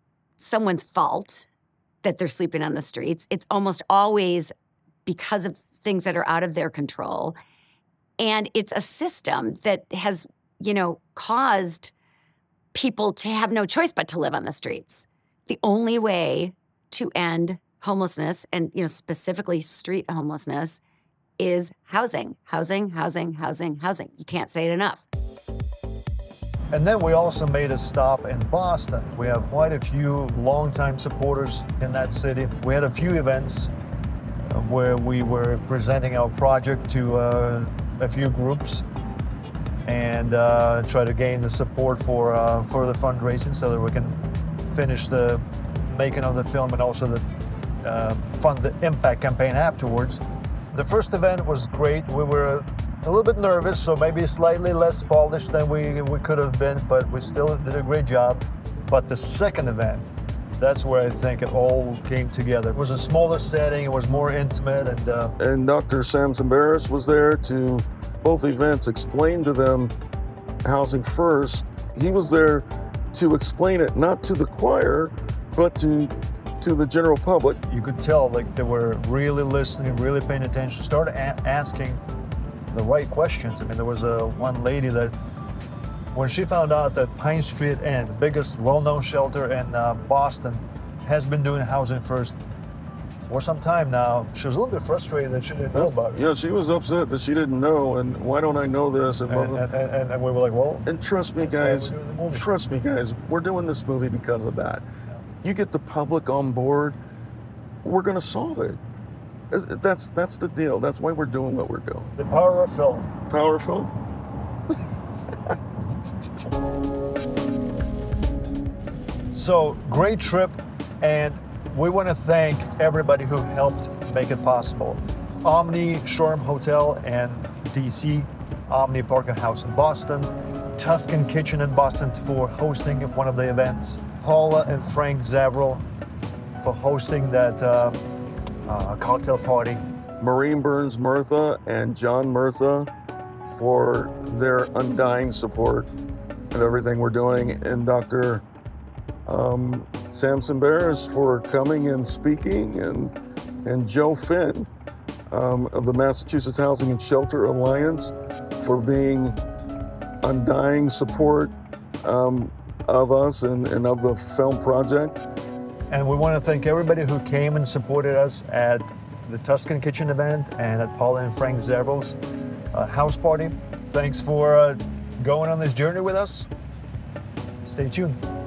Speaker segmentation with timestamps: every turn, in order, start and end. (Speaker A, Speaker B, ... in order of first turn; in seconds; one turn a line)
Speaker A: 0.4-1.5
Speaker A: 2.0-4.5
Speaker A: 5.0-7.3
Speaker A: 8.2-11.9
Speaker A: 12.7-20.8
Speaker A: 21.4-25.0
Speaker B: 26.7-33.7
Speaker B: 34.5-38.9
Speaker B: 39.8-47.2
Speaker B: 47.8-50.2
Speaker B: 50.7-65.3
Speaker C: 65.4-69.9
Speaker C: 70.6-77.6
Speaker B: 77.7-82.0
Speaker B: 82.7-85.1
Speaker B: 86.1-92.4
Speaker B: 93.2-96.2
Speaker C: 95.7-99.6
Speaker B: 99.3-100.8
Speaker C: 100.8-104.8
Speaker B: 101.4-102.5
Speaker C: 105.4-107.0
Speaker C: 107.8-108.8
Speaker C: 109.5-112.1
Speaker B: 112.2-113.1
Speaker C: 113.3-113.9
Speaker B: 119.3-135.8
Speaker B: 136.6-138.0
Speaker B: 138.7-139.8
Speaker C: 140.2-142.9
Speaker C: 143.5-145.9
Speaker C: 146.5-148.4
Speaker C: 149.3-154.7
Speaker C: 155.3-159.4
Speaker C: 160.2-161.5
Speaker C: 162.0-165.2
Speaker B: 165.9-172.2
Speaker B: 172.7-176.5
Speaker B: 177.6-178.2